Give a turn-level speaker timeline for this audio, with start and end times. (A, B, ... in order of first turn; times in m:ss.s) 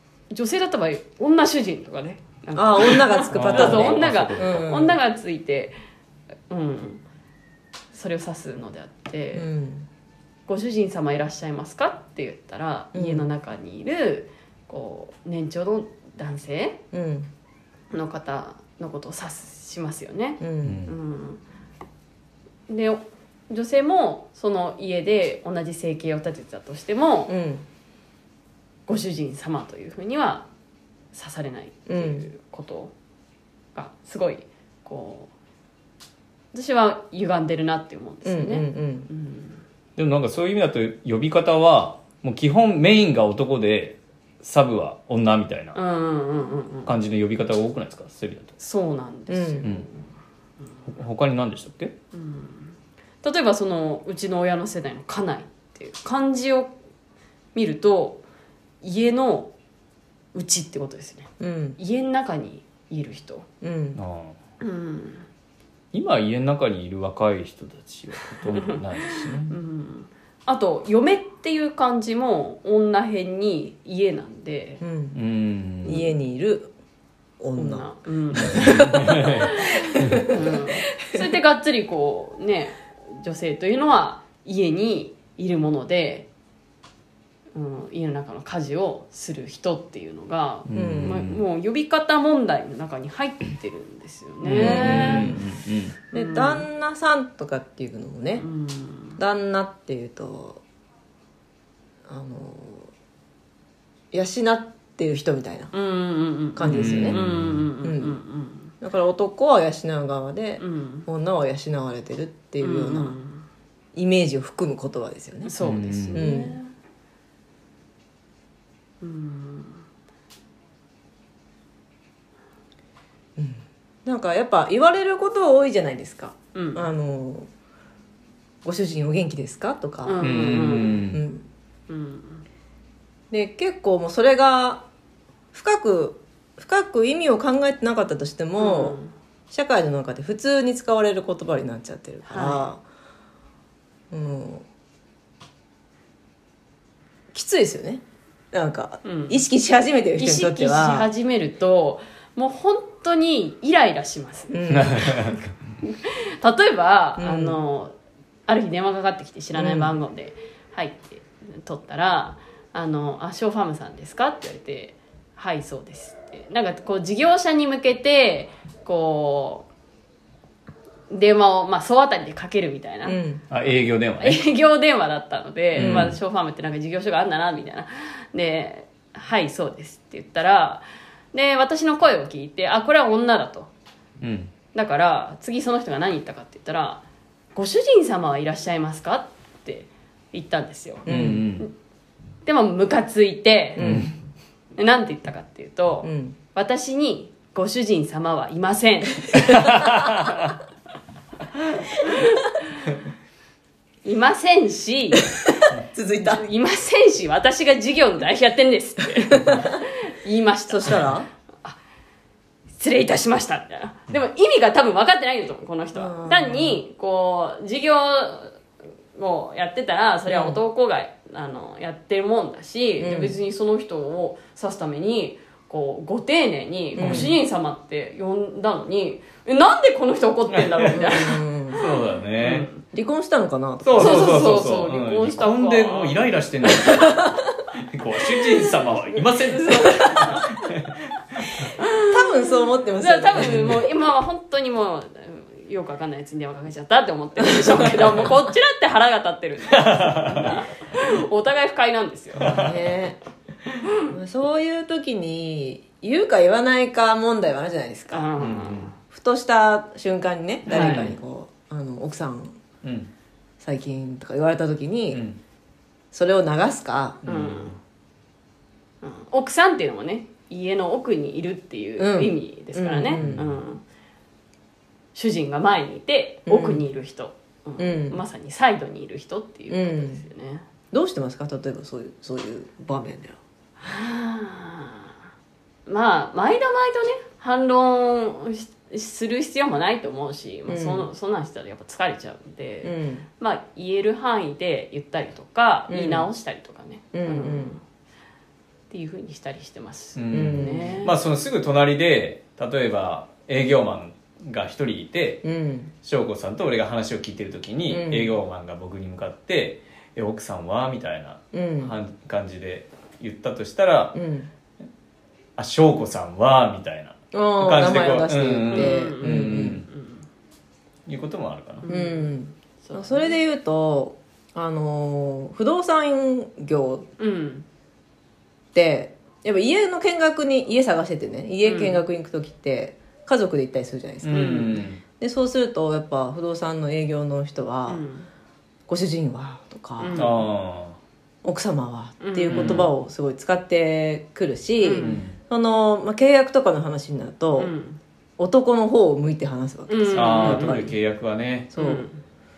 0:00.3-0:05.8 A
0:02.6-0:05.0 B
0:03.3-0:04.7 C
0:06.5-0:07.0 A
0:07.9-0:09.5 A
0:09.3-0:09.9 B
0:10.5-0:16.8 A
0:12.9-0:13.3 B
0:16.9-0:17.3 B
0:17.9-0:21.4 A
0:20.4-0:20.8 B
0:20.6-0:20.9 C
0:22.7-0:27.3 A
0:27.3-0:27.7 B
0:28.9-0:30.5 A
0:31.1-0:32.9 A
0:31.9-0:32.3 B
0:33.8-0:35.3 A
0:36.5-0:39.6 A
0:38.2-0:39.1 B
0:40.0-0:45.8 C
0:45.7-0:47.0 A
0:46.9-0:48.6 C
0:48.6-0:50.0 A
0:49.3-0:49.7 B
0:50.9-0:52.0 C
0:52.1-0:56.7 A
0:57.6-0:58.2 A
0:58.8-0:59.5 A
1:00.3-1:03.5 A
1:01.4-1:01.8 B
1:03.6-1:04.0 B
1:04.0-1:04.4 C
1:04.6-1:05.3 A
1:05.9-1:09.6 C
1:08.6-1:14.8 A
1:14.8-1:15.2 B
1:15.1-1:16.1 C
1:15.8-1:16.7 B
1:17.4-1:20.6 B
1:17.6-1:26.3 A
1:18.4-1:19.5 C
1:27.5-1:35.4 A
1:30.7-1:31.4 C
1:30.7-1:31.2 B
1:34.4-1:36.0 C
1:34.5-1:35.5 B
1:36.1-1:36.7 A
1:36.1-1:38.5 B
1:38.4-1:39.2 A
1:39.2-1:40.6 B
1:42.1-1:42.9 B
1:44.1-1:45.7 B
1:45.7-1:48.7 A
1:46.6-1:47.2 B
1:46.7-1:47.7 C
1:47.8-1:48.2 B
1:48.8-1:53.2 B
1:50.6-1:51.1 A
1:52.6-1:53.5 A
1:53.9-1:55.5 B
1:55.4-1:56.7 A
1:55.6-1:56.3 C
1:56.1-1:56.6 B
1:59.0-1:59.8 A
2:03.4-2:07.5 B
2:06.5-2:06.9 A
2:08.6-2:11.5 B
2:10.0-2:11.0 A
2:10.2-2:11.2 C
2:11.9-2:12.4 A
2:13.3-2:14.9 B
2:15.5-2:19.0 B
2:18.6-2:19.1 A
2:19.5-2:22.8 B
2:22.3-2:22.7 A
2:24.1-2:24.6 B
2:27.3-2:31.1 B
2:29.0-2:29.4 A
2:30.2-2:37.9 A
2:34.5-2:35.2 B
2:34.7-2:35.5 C
2:37.2-2:37.6 B
2:38.5-2:49.7 A
2:39.6-2:39.9 B
2:51.1-2:53.2 A
2:53.0-2:53.4 B
2:53.5-2:54.4 C
2:54.2-3:03.7 A
2:55.8-2:56.1 B
2:55.8-2:56.2 C
3:04.2-3:04.5 C
3:04.7-3:07.0 A
3:07.6-3:11.1 A
3:11.1-3:11.4 B
3:11.1-3:11.7 C
3:12.4-3:14.0 A
3:13.8-3:14.1 B
3:13.8-3:14.1 C
3:14.8-3:20.1 A
3:16.0-3:16.4 B
3:19.5-3:20.5 C
3:22.0-3:22.5 A
3:24.0-3:25.4 A
3:25.5-3:26.5 B
3:26.2-3:31.1 A
3:29.3-3:29.7 B
3:30.7-3:31.3 B
3:32.8-3:38.6 A
3:35.9-3:36.8 B
3:39.2-3:52.8 A
3:40.3-3:40.6 B
3:43.0-3:43.4 B
3:47.0-3:47.3 B
3:47.0-3:47.4 C
3:50.5-3:52.7 C
3:51.0-3:51.8 B
3:52.9-3:54.7 B
3:53.8-4:01.7 C
3:54.0-3:57.0 A
3:56.9-3:57.3 B
3:58.4-4:00.6 A
4:01.8-4:12.5 A
4:02.1-4:03.8 B
4:03.4-4:03.8 C
4:09.7-4:10.6 C
4:12.4-4:12.8 C
4:12.4-4:13.2 B
4:13.9-4:14.1 A
4:14.1-4:18.3 B
4:18.1-4:19.0 A
4:18.4-4:18.9 C
4:19.1-4:22.6 B
4:20.7-4:21.1 A
4:20.7-4:21.2 C
4:22.8-4:23.1 C
4:23.6-4:25.2 B
4:25.1-4:25.4 C
4:26.1-4:27.2 B
4:27.2-4:27.8 C
4:27.2-4:27.8 A
4:29.0-4:33.8 A
4:32.0-4:33.4 B
4:33.2-4:33.6 C
4:35.2-4:40.6 A
4:36.5-4:36.8 B
4:37.8-4:38.2 B
4:39.7-4:40.2 B
4:40.9-4:43.4 B
4:43.8-4:45.2 A
4:45.9-4:57.8 A
4:50.7-4:51.1 B
4:52.8-4:53.3 B
4:55.9-4:56.3 B
4:57.1-4:57.8 B
4:58.9-5:01.2 A
5:00.2-5:05.5 C
5:00.3-5:01.0 B
5:05.4-5:05.9 B
5:06.0-5:14.2 C
5:07.9-5:08.4 B
5:11.5-5:12.0 B
5:14.1-5:14.5 B
5:15.6-5:19.9 C
5:17.3-5:19.8 B
5:18.7-5:20.2 A
5:21.1-5:21.9 C
5:21.8-5:22.3 A
5:21.9-5:27.1 B
5:22.8-5:23.3 A
5:27.2-5:27.7 A
5:28.7-5:38.0 B
5:31.6-5:32.0 A
5:34.2-5:35.0 C
5:34.3-5:34.8 A
5:37.9-5:38.3 A
5:38.9-5:40.3 B
5:40.0-5:40.5 A
5:40.2-5:41.0 C
5:41.4-5:47.7 B
5:42.2-5:42.9 A
5:42.5-5:42.9 C
5:44.8-5:45.2 A
5:45.0-5:45.4 C
5:47.6-5:48.0 A
5:48.4-5:50.9 B
5:49.9-5:50.9 A
5:50.2-5:51.7 C
5:51.7-5:52.1 B
5:51.8-5:52.2 A